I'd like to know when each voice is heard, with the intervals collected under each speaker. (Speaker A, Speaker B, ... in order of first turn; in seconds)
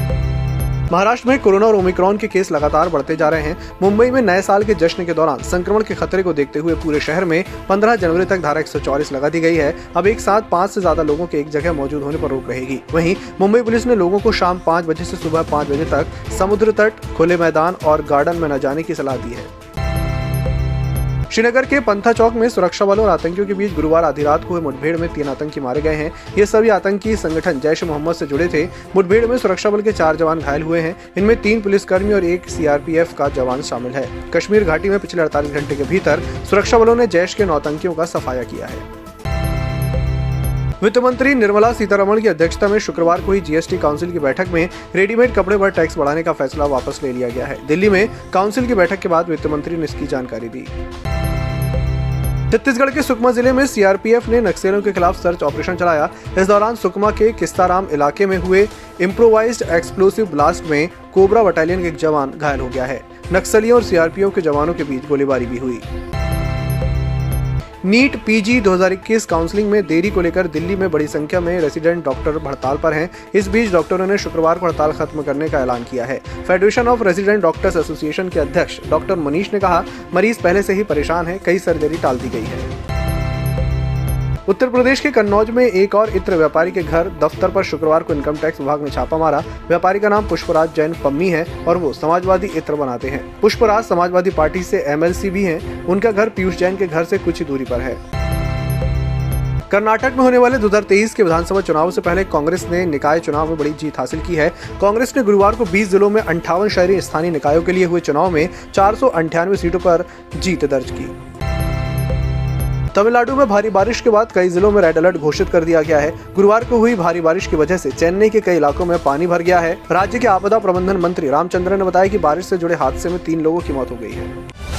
Speaker A: 0.9-19.5, 21.3-38.9, 40.8-50.7, 52.5-65.8, 67.8-82.7, 84.5-98.0, 99.7-111.1, 112.9-124.3